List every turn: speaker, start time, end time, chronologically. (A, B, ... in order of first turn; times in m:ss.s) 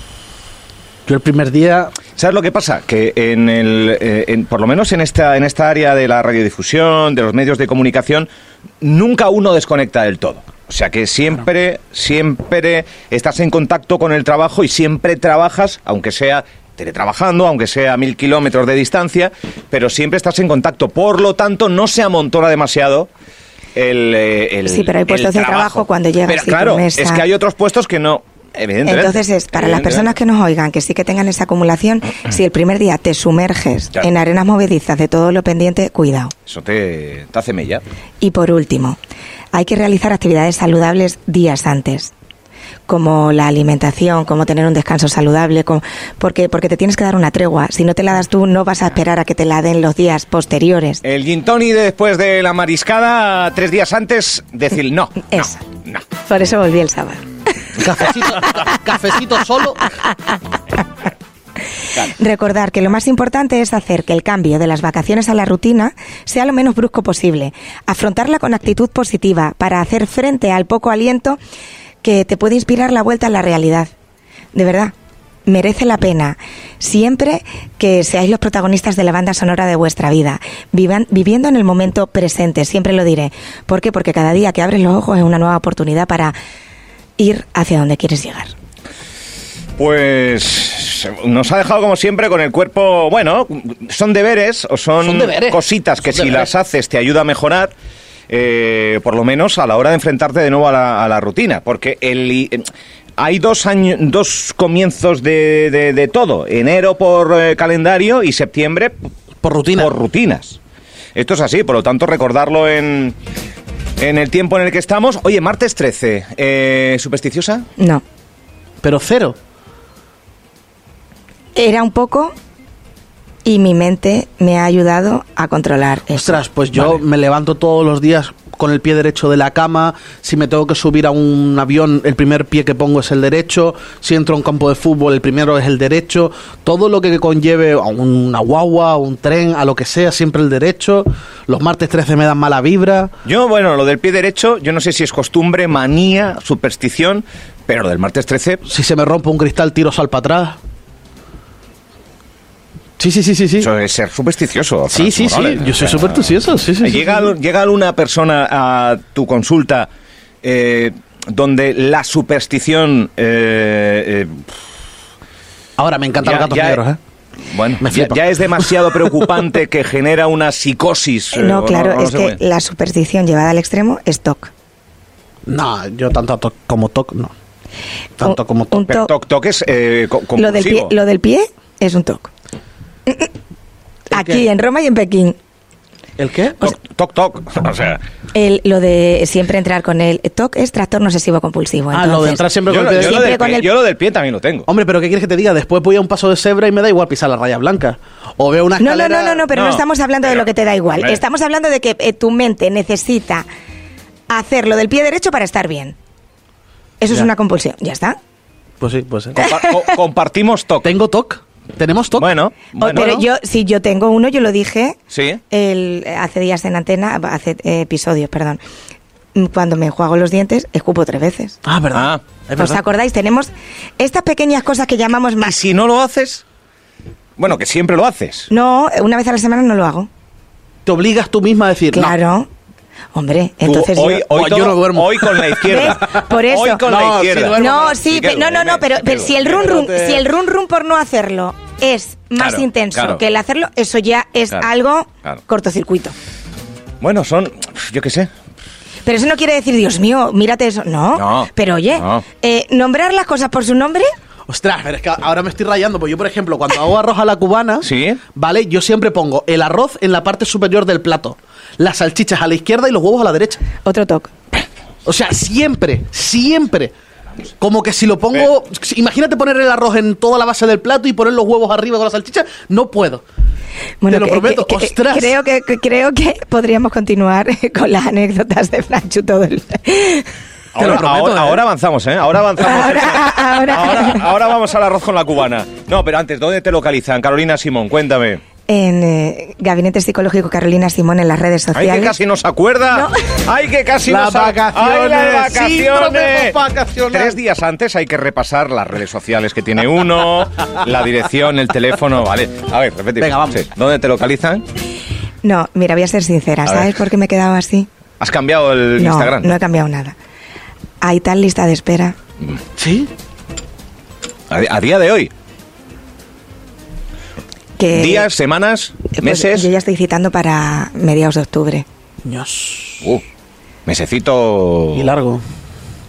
0:01.1-0:02.0 A
0:02.2-0:08.3 B
0:08.8-0:23.1 B
0:23.8-0:30.2 B
0:24.7-0:27.2 C
0:28.8-0:36.3 C
0:36.5-0:37.8 B
0:38.2-0:39.0 C
0:39.5-0:42.1 C
0:42.9-0:51.0 C
0:51.0-0:56.0 B
0:55.3-0:55.6 C
0:56.2-0:57.8 C
0:57.8-0:59.9 A
0:58.4-0:58.8 C
1:00.0-1:00.3 C
1:02.0-1:11.4 C
1:12.0-1:13.9 C
1:14.5-1:14.9 C
1:15.5-1:26.4 C
1:27.2-1:28.5 C
1:29.8-1:37.7 B
1:35.0-1:36.5 A
1:38.3-1:42.7 B
1:43.2-1:49.0 B
1:49.4-1:49.9 A
1:49.8-1:50.6 B
1:51.2-1:53.2 B
1:54.0-1:57.7 B
1:57.8-1:58.0 C
1:58.8-1:59.4 A
2:01.6-2:02.3 C
2:03.4-2:06.4 C
2:06.1-2:23.1 A
2:06.7-2:07.0 B
2:23.2-2:28.6 B
2:28.7-2:30.6 A
2:33.0-2:33.7 A
2:33.6-2:36.2 B
2:34.9-2:37.2 A
2:36.8-2:39.9 B
2:40.4-2:44.5 B
2:45.8-2:47.0 A
2:46.2-2:46.8 B
2:47.4-2:52.4 B
2:47.8-2:49.1 A
2:51.3-2:54.5 C
2:55.5-2:57.3 A
2:58.2-2:58.7 A
2:58.2-2:59.1 C
2:58.9-3:00.9 B
3:00.4-3:02.3 C
3:04.1-3:04.5 A
3:04.1-3:05.4 C
3:06.2-3:06.6 A
3:06.6-3:08.0 B
3:08.3-3:13.7 C
3:11.9-3:13.4 A
3:12.7-3:14.7 B
3:14.7-3:19.4 A
3:18.8-3:23.5 C
3:19.5-3:21.2 B
3:24.3-3:26.0 C
3:27.0-3:28.2 C
3:28.8-3:29.5 A
3:29.4-3:30.9 B
3:29.4-3:29.9 C
3:30.8-3:32.3 A
3:32.2-3:33.3 B
3:32.8-3:35.0 C
3:35.1-3:35.4 B
3:35.5-3:38.6 C
3:39.4-3:41.6 C
3:41.6-3:42.8 A
3:41.9-3:42.2 B
3:42.6-3:45.6 C
3:45.4-3:46.4 B
3:47.4-3:48.5 B
3:48.5-3:50.1 C
3:50.9-3:52.1 A
3:51.9-3:52.5 C
3:53.1-3:54.3 C
3:53.6-3:59.5 B
3:54.3-3:56.3 A
3:55.6-3:56.8 C
3:56.8-3:58.0 A
3:57.6-4:06.2 C
3:59.3-4:00.3 A
4:02.4-4:03.2 B
4:07.0-4:08.3 B
4:09.1-4:14.1 C
4:11.2-4:12.2 B
4:14.5-4:23.6 A
4:17.8-4:18.2 B
4:23.8-4:24.3 C
4:25.0-4:26.9 A
4:27.6-4:33.2 A
4:34.0-4:40.3 C
4:34.1-4:35.4 A
4:40.8-4:48.4 B
4:40.8-4:41.6 A
4:42.6-4:44.3 C
4:48.7-4:52.2 C
4:51.8-5:04.6 B
4:54.1-4:57.4 A
5:03.2-5:03.6 A
5:05.4-5:07.9 C
5:06.7-5:06.9 B
5:08.2-5:09.5 B
5:09.0-5:10.2 C
5:11.0-5:12.2 C
5:12.8-5:13.1 A
5:14.5-5:15.3 B
5:17.8-5:18.3 C
5:17.9-5:19.7 B
5:19.2-5:21.9 C
5:22.2-5:23.1 A
5:23.9-5:25.1 B
5:24.9-5:25.4 A